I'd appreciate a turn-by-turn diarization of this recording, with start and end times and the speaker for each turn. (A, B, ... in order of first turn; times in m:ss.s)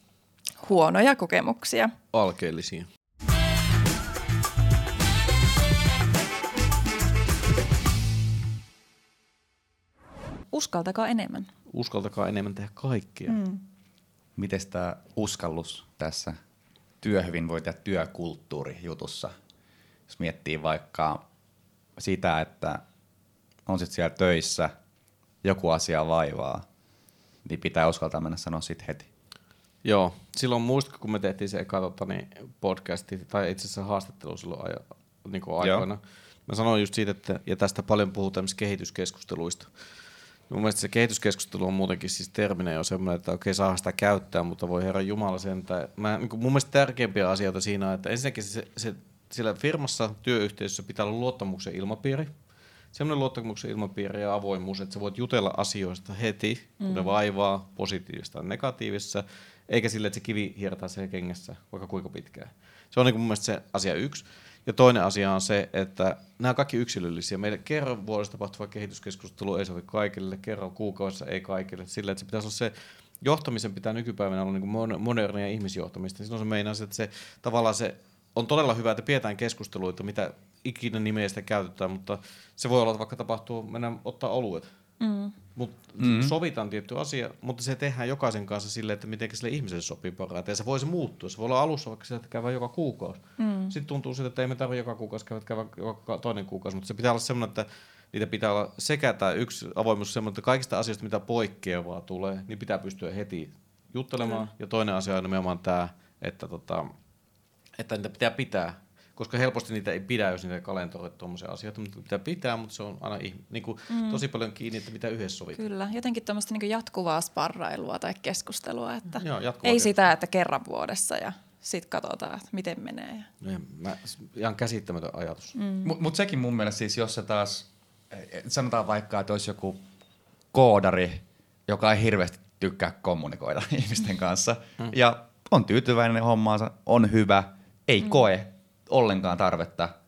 0:00.6-0:01.9 A
0:02.1-0:02.8 B
0:10.5-0:11.5 A
0:11.7-0:13.4 B
0:13.3-0:13.6 A
0:14.4-0:16.4 C
0:17.0-0:19.3 C
0:20.1-0:21.2 C
0:22.0-0:22.8 C
0:23.7-0:24.7 C
0:25.4-0:26.7 C
0:27.4-0:29.1 C
0:29.8-0:39.7 B
0:35.6-0:35.9 C
0:40.5-0:52.3 B
0:52.9-1:24.7 B
0:56.8-0:57.1 A
1:25.0-1:25.3 A
1:25.6-1:46.9 B
1:26.0-1:26.4 C
1:33.4-1:33.7 A
1:44.2-1:44.5 A
1:47.8-1:55.6 B
1:53.9-1:54.2 A
1:55.6-2:03.3 A
1:59.2-2:00.0 B
2:03.4-2:05.6 B
2:05.6-2:06.0 A
2:05.8-2:09.8 C
2:10.5-2:19.9 C